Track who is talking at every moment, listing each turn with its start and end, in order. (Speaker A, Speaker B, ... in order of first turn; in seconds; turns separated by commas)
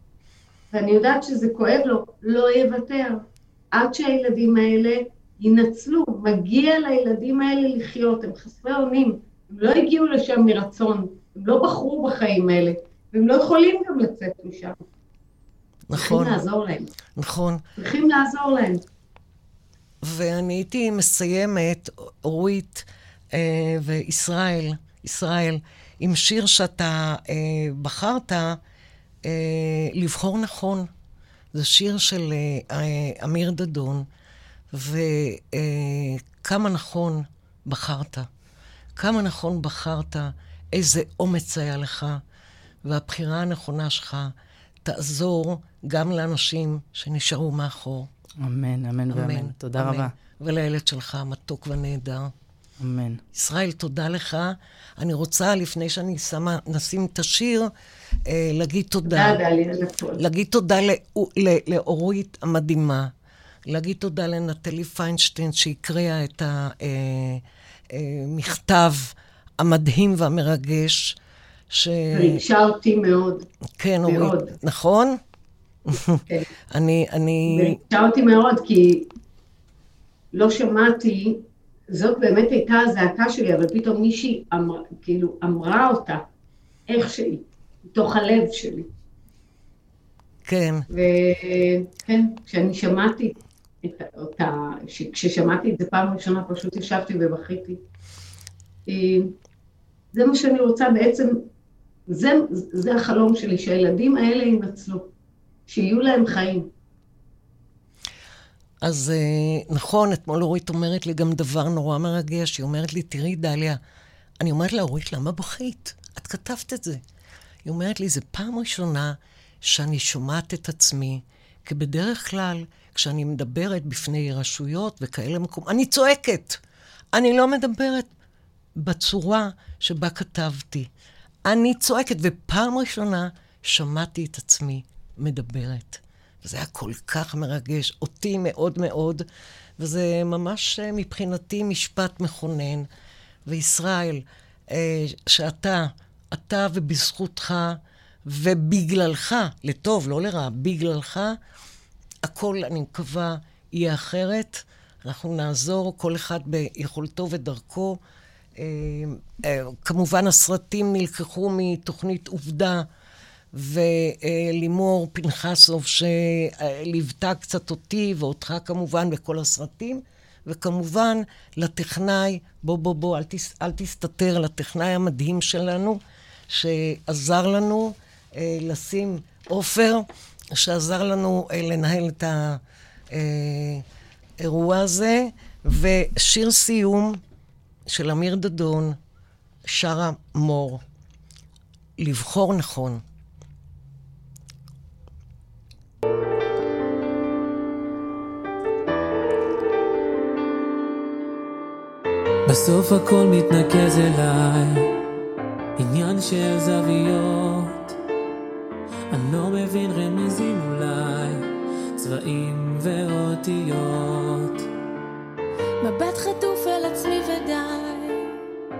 Speaker A: 0.7-14.8, Speaker B: 15.9-16.4, Speaker A: 15.9-16.9, Speaker B: 17.1-17.6, Speaker A: 17.8-18.8, Speaker B: 20.0-28.6, Speaker B: 29.2-30.9, Speaker B: 31.5-34.1, Speaker B: 34.7-38.3, Speaker B: 39.0-42.2, Speaker B: 42.8-44.3, Speaker B: 44.8-48.1, Speaker C: 48.4-50.1, Speaker B: 49.1-52.3, Speaker C: 52.8-53.2, Speaker B: 53.3-57.7, Speaker B: 58.2-59.4, Speaker A: 59.0-60.2, Speaker B: 60.2-63.1, Speaker B: 63.7-71.2, Speaker B: 71.7-72.4, Speaker A: 72.1-73.5, Speaker B: 73.8-75.2, Speaker A: 74.0-74.5, Speaker B: 75.9-77.8, Speaker A: 77.5-79.1, Speaker A: 80.3-86.2, Speaker A: 86.9-88.9, Speaker B: 90.4-90.9, Speaker A: 90.9-97.8, Speaker A: 98.9-99.3, Speaker A: 100.1-101.4, Speaker A: 102.1-105.1, Speaker A: 105.7-106.7, Speaker B: 108.8-113.8, Speaker B: 114.4-117.0, Speaker B: 117.6-126.6, Speaker B: 127.1-128.1, Speaker B: 128.8-130.9, Speaker B: 131.4-139.2, Speaker B: 139.8-142.9, Speaker B: 143.4-151.4, Speaker B: 152.2-158.0, Speaker B: 158.6-162.9, Speaker B: 163.5-183.8, Speaker B: 184.4-187.2, Speaker B: 187.9-189.0, Speaker B: 189.7-190.8, Speaker B: 192.0-193.0, Speaker D: 202.4-204.9, Speaker D: 205.8-208.0, Speaker D: 209.1-214.7, Speaker E: 215.8-218.3